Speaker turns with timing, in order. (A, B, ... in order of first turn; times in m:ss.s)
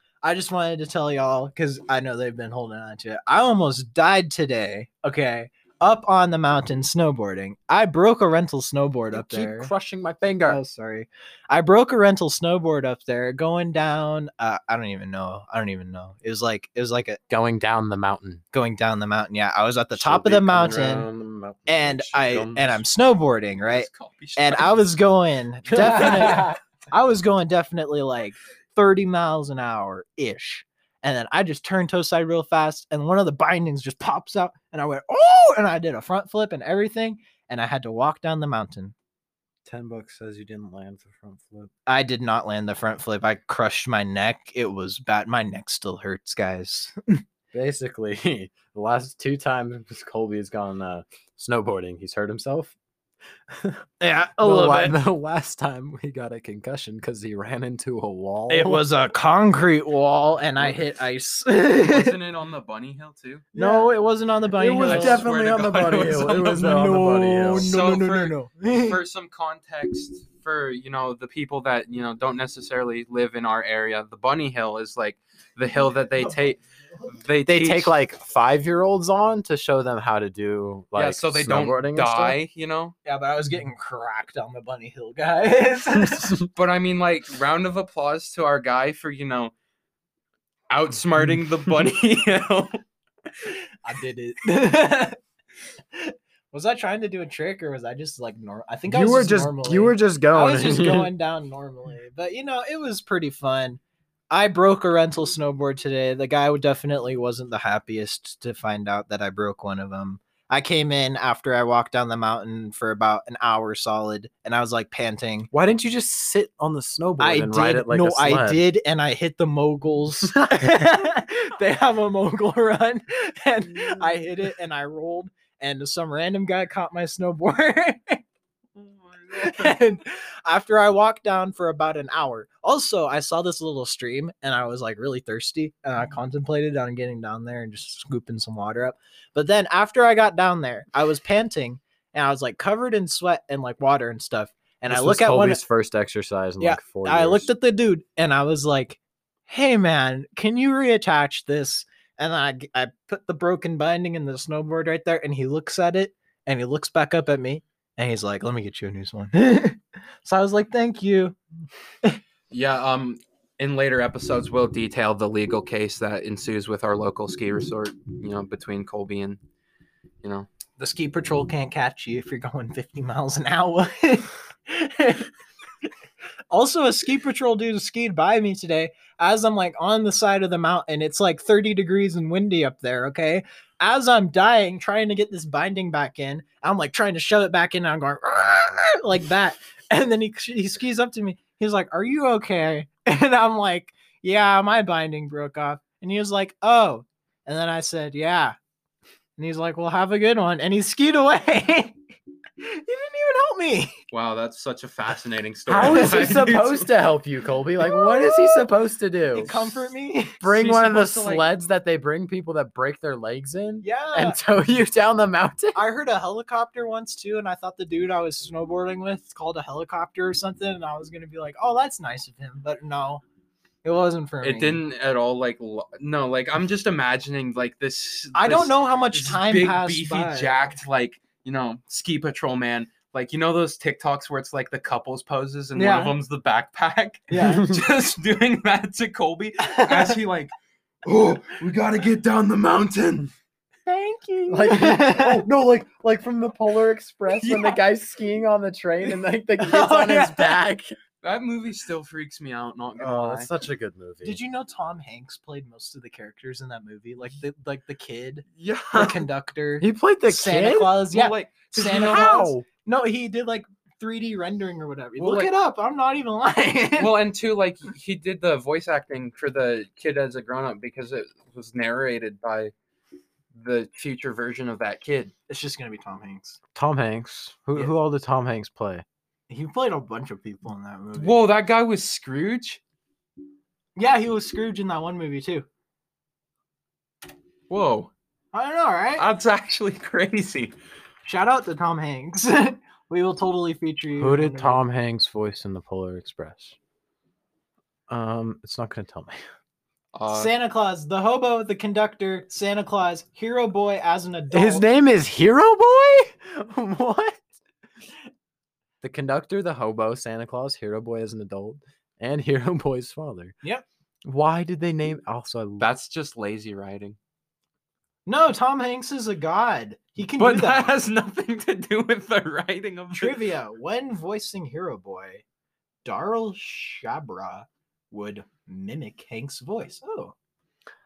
0:00.2-0:09.7 A
0:09.1-0:10.6 B
0:10.4-0:17.2 A
0:17.3-0:18.4 B
0:18.5-0:21.1 A
0:19.9-0:22.8 B
0:21.7-0:38.9 A
0:23.6-0:24.8 C
0:25.9-0:26.5 B
0:26.0-0:26.4 C
0:39.6-0:41.7 B
0:41.9-0:47.2 A
0:47.5-0:52.8 B
0:53.5-0:53.8 B
0:54.0-0:55.0 A
0:54.4-0:58.8 B
0:58.5-1:02.2 A
1:01.9-1:03.5 C
1:03.6-1:03.9 B
1:03.6-1:05.2 A
1:04.6-1:07.7 B
1:04.8-1:06.8 C
1:06.6-1:09.0 A
1:07.6-1:18.0 C
1:16.2-1:16.6 A
1:17.5-1:22.4 B
1:21.0-1:23.0 C
1:23.0-1:26.4 A
1:26.4-1:29.5 C
1:30.7-1:32.8 C
1:33.5-1:35.2 A
1:35.9-1:43.8 A
1:38.9-1:41.1 B
1:44.3-1:55.5 A
1:55.5-1:58.6 B
1:57.2-2:08.2 A
2:00.4-2:00.7 B
2:08.8-2:09.8 C
2:09.3-2:25.6 A
2:24.9-2:27.5 B
2:26.6-2:41.4 A
2:42.5-2:49.4 C
2:50.8-2:55.3 A
2:56.5-3:18.6 A
3:19.4-3:22.0 A
3:22.6-3:24.0 A
3:24.1-3:26.9 C
3:25.7-3:29.6 B
3:25.9-3:26.4 A
3:27.8-3:28.7 A
3:29.3-3:30.4 A
3:30.4-3:35.8 B
3:30.5-3:31.5 C
3:33.8-3:34.4 A
3:35.7-3:43.2 A
3:43.8-3:44.8 A
3:44.4-4:00.5 C
3:48.4-3:50.6 A
3:55.8-3:56.2 A
3:57.3-3:57.7 A
3:57.5-3:57.8 B
3:59.6-4:00.2 A
4:01.0-4:03.3 C
4:03.9-4:05.4 A
4:04.5-4:10.9 B
4:07.3-4:07.8 C
4:09.6-4:10.6 A
4:11.2-4:13.5 C
4:13.0-4:14.4 B
4:14.2-4:27.1 A
4:18.6-4:19.3 C
4:19.8-4:20.9 B
4:21.1-4:22.4 C
4:21.8-4:22.7 B
4:25.2-4:25.5 C
4:27.0-4:32.7 C
4:33.5-4:35.3 C
4:35.5-4:36.6 A
4:36.8-4:39.0 B
4:39.5-4:41.4 A
4:41.2-4:42.8 C
4:44.0-4:45.7 A
4:47.7-4:48.1 C
4:48.5-4:49.3 A
4:49.2-4:50.7 C
4:51.3-4:54.8 A
4:54.2-4:56.8 B
4:58.1-4:59.4 B
5:00.1-5:00.5 C
5:00.3-5:04.9 A
5:04.5-5:07.4 B
5:09.0-5:13.5 B
5:14.3-5:15.9 B
5:15.8-5:17.2 C
5:18.3-5:21.0 A
5:20.4-5:23.4 C
5:23.1-5:25.4 A
5:26.0-5:30.3 A